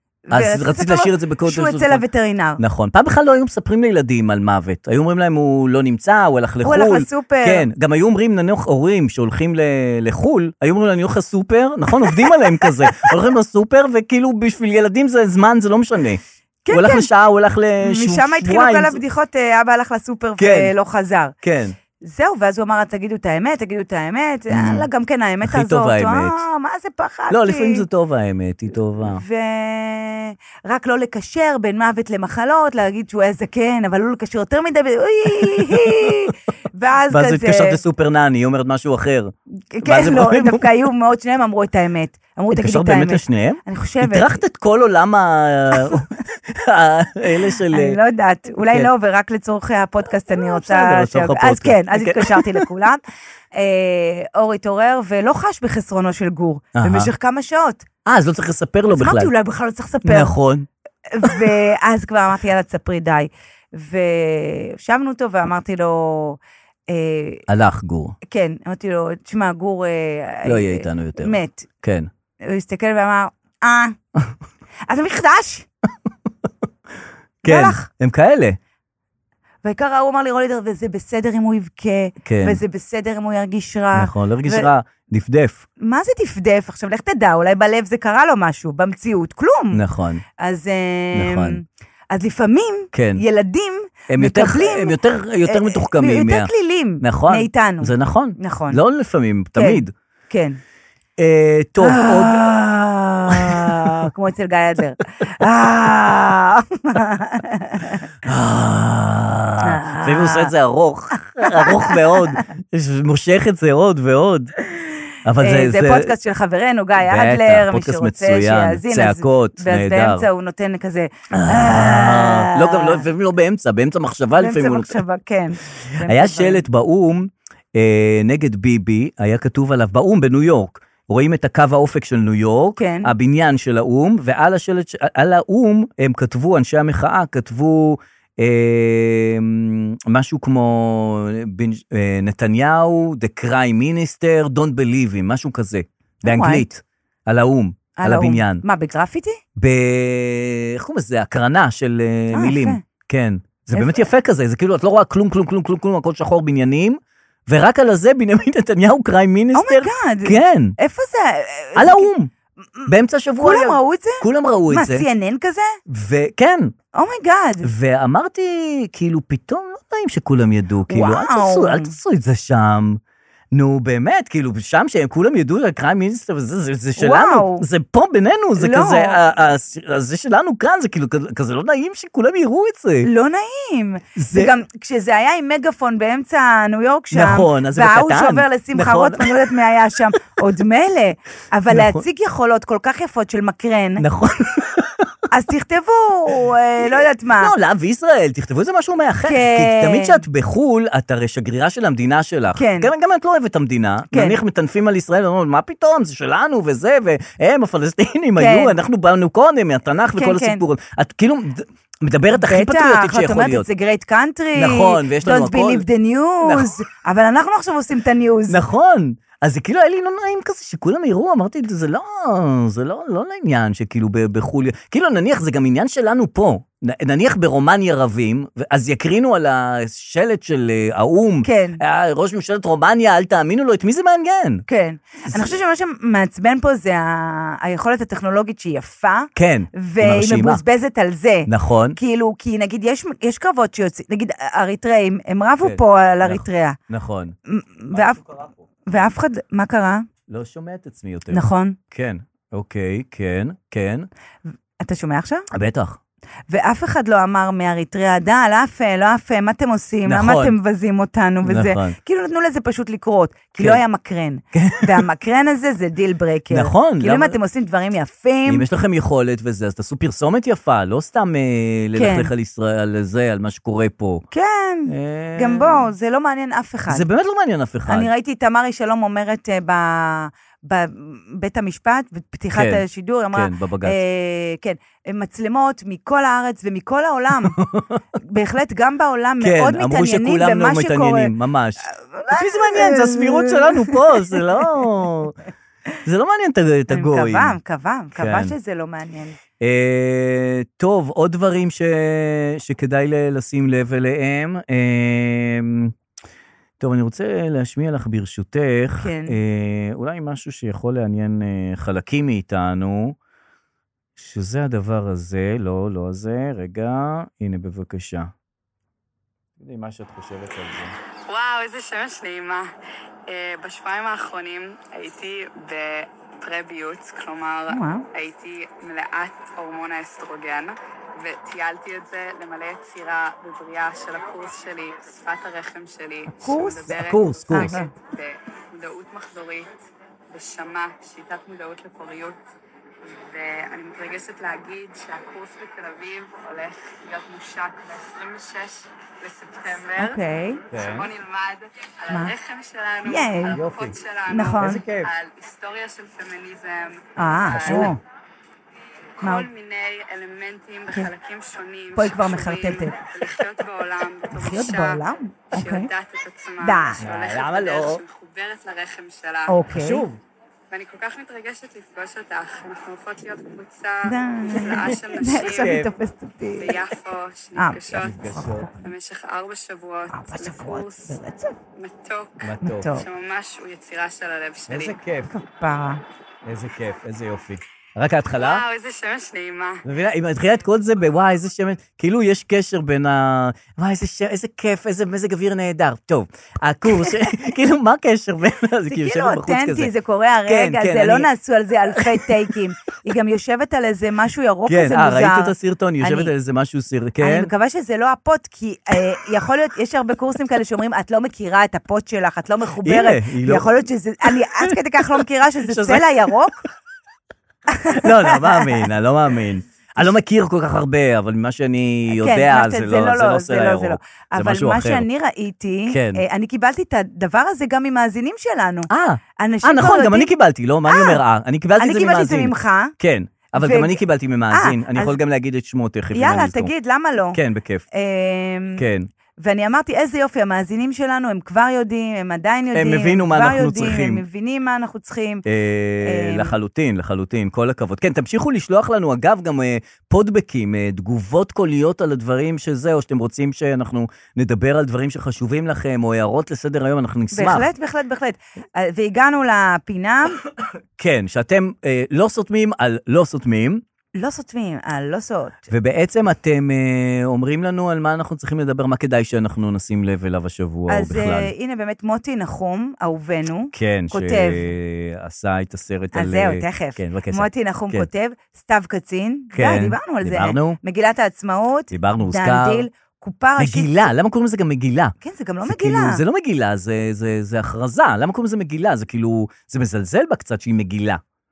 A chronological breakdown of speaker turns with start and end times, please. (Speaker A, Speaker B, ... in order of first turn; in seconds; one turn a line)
Speaker A: 0.3-2.6
Speaker B: 0.3-2.0
Speaker B: 2.6-19.0
Speaker A: 6.6-7.7
Speaker A: 12.1-13.1
Speaker A: 16.6-17.1
Speaker A: 17.8-21.3
Speaker B: 20.4-20.7
Speaker B: 21.4-21.8
Speaker A: 22.0-27.9
Speaker B: 24.5-24.9
Speaker B: 25.4-26.4
Speaker B: 27.3-29.2
Speaker A: 29.1-37.8
Speaker B: 35.4-36.2
Speaker B: 37.1-40.7
Speaker A: 39.7-44.4
Speaker B: 42.5-48.0
Speaker A: 47.7-53.0
Speaker B: 50.4-52.6
Speaker A: 53.5-57.9
Speaker B: 56.8-57.1
Speaker B: 58.1-59.3
Speaker A: 58.9-60.3
Speaker B: 60.0-60.7
Speaker A: 61.1-67.5
Speaker B: 67.5-68.2
Speaker A: 68.3-71.7
Speaker B: 70.5-72.1
Speaker A: 72.4-74.0
Speaker A: 74.9-75.7
Speaker A: 77.4-77.9
Speaker B: 77.4-78.6
Speaker A: 79.6-84.7
Speaker B: 82.2-82.6
Speaker B: 83.9-85.6
Speaker A: 85.8-89.8
Speaker B: 89.7-90.2
Speaker A: 90.4-98.8
Speaker B: 91.1-91.6
Speaker B: 92.9-93.2
Speaker B: 94.1-99.9
Speaker A: 99.6-100.6
Speaker B: 101.2-102.5
Speaker A: 101.8-108.1
Speaker B: 103.3-104.1
Speaker B: 108.2-114.5
Speaker A: 109.6-110.5
Speaker A: 111.4-112.4
Speaker A: 114.7-123.0
Speaker B: 115.2-116.1
Speaker B: 117.0-120.3
Speaker B: 121.3-125.0
Speaker A: 124.3-126.7
Speaker B: 126.0-148.6
Speaker A: 132.8-133.1
Speaker A: 146.2-146.7
Speaker A: 148.0-149.4
Speaker B: 149.6-160.8
Speaker A: 152.3-152.8
Speaker A: 153.7-154.0
Speaker A: 159.6-162.1
Speaker B: 161.8-162.3
Speaker A: 162.8-165.8
Speaker B: 162.9-165.1
Speaker B: 165.9-166.7
Speaker A: 166.9-167.7
Speaker B: 167.6-173.0
Speaker A: 170.9-171.9
Speaker B: 173.5-183.1
Speaker A: 177.0-177.7
Speaker A: 178.6-179.2
Speaker A: 183.0-194.0
Speaker B: 184.2-184.5
Speaker B: 187.1-189.5
Speaker B: 191.7-192.0
Speaker B: 194.0-195.2
Speaker A: 195.3-197.5
Speaker B: 196.9-213.7
Speaker A: 199.2-200.2
Speaker A: 202.6-202.9
Speaker A: 204.1-204.4
Speaker A: 208.4-208.8
Speaker A: 210.2-210.6
Speaker A: 212.3-218.6
Speaker B: 214.6-215.8
Speaker B: 216.4-216.7
Speaker B: 218.5-234.7
Speaker A: 231.4-231.8
Speaker A: 234.7-246.8
Speaker B: 235.3-235.6
Speaker B: 239.3-240.6
Speaker B: 241.5-242.0
Speaker B: 245.6-247.4
Speaker A: 247.5-248.2
Speaker B: 247.9-248.6
Speaker A: 248.9-250.1
Speaker B: 250.3-254.1
Speaker A: 251.3-251.8
Speaker A: 254.8-255.5
Speaker B: 255.5-256.0
Speaker A: 256.5-268.6
Speaker B: 260.1-260.6
Speaker B: 261.4-262.0
Speaker B: 264.5-265.0
Speaker B: 266.5-267.4
Speaker B: 268.5-274.2
Speaker A: 271.9-272.3
Speaker A: 274.3-277.1
Speaker B: 274.9-275.9
Speaker B: 276.9-278.1
Speaker A: 277.9-287.6
Speaker B: 282.5-284.0
Speaker B: 287.4-288.0
Speaker A: 288.2-291.3
Speaker B: 289.4-295.4
Speaker A: 291.9-294.8
Speaker B: 296.1-297.6
Speaker A: 296.9-299.4
Speaker B: 298.1-298.6
Speaker B: 299.6-305.9
Speaker B: 306.8-313.2
Speaker A: 308.9-309.4
Speaker B: 314.2-318.3
Speaker B: 319.6-321.0
Speaker C: 321.3-322.7
Speaker C: 323.3-339.8
Speaker A: 327.7-328.1
Speaker A: 336.3-336.9
Speaker B: 336.9-337.8
Speaker A: 337.5-337.9
Speaker C: 340.3-342.4
Speaker C: 343.0-358.0
Speaker A: 350.0-350.6
Speaker B: 350.7-351.1
Speaker A: 353.1-353.6
Speaker B: 353.5-354.0
Speaker A: 354.3-354.8
Speaker B: 354.6-355.1
Speaker A: 357.2-358.0
Speaker B: 357.6-357.9
Speaker C: 359.2-369.6
Speaker A: 359.2-359.5
Speaker A: 361.9-363.0
Speaker A: 364.3-365.9
Speaker A: 366.6-367.0
Speaker B: 367.0-368.0
Speaker A: 369.5-370.1
Speaker B: 369.7-370.2
Speaker C: 370.7-375.9
Speaker A: 374.1-376.8
Speaker B: 374.7-375.9
Speaker C: 376.6-378.2
Speaker A: 377.6-378.9
Speaker B: 378.0-378.7
Speaker C: 378.7-381.2
Speaker A: 380.1-381.6
Speaker C: 381.8-385.0
Speaker B: 382.4-382.9
Speaker A: 382.6-383.1
Speaker B: 384.7-385.3
Speaker A: 385.3-386.0
Speaker B: 386.4-388.6
Speaker C: 388.3-389.9
Speaker B: 389.9-399.9
Speaker A: 398.9-406.3
Speaker B: 400.5-401.3
Speaker B: 401.9-402.3
Speaker B: 404.7-407.5
Speaker A: 407.2-416.6
Speaker B: 412.8-413.7
Speaker B: 415.6-416.3
Speaker A: 417.7-418.8
Speaker B: 417.9-425.1
Speaker A: 422.1-430.3
Speaker B: 425.9-426.2
Speaker B: 428.9-436.7
Speaker A: 430.9-431.2
Speaker A: 431.8-432.9
Speaker A: 433.6-435.2
Speaker A: 436.1-437.4
Speaker B: 437.3-437.9
Speaker A: 437.9-438.9
Speaker B: 438.8-439.1
Speaker A: 439.4-445.4
Speaker B: 442.7-444.2
Speaker B: 445.5-457.7
Speaker A: 446.0-446.6
Speaker A: 457.3-460.4
Speaker B: 461.0-463.8
Speaker A: 464.2-465.7
Speaker B: 465.7-471.5
Speaker A: 470.9-474.7
Speaker B: 473.7-478.1
Speaker A: 476.1-484.1
Speaker B: 479.5-480.8
Speaker B: 481.9-482.9
Speaker B: 483.6-491.2
Speaker A: 485.2-486.2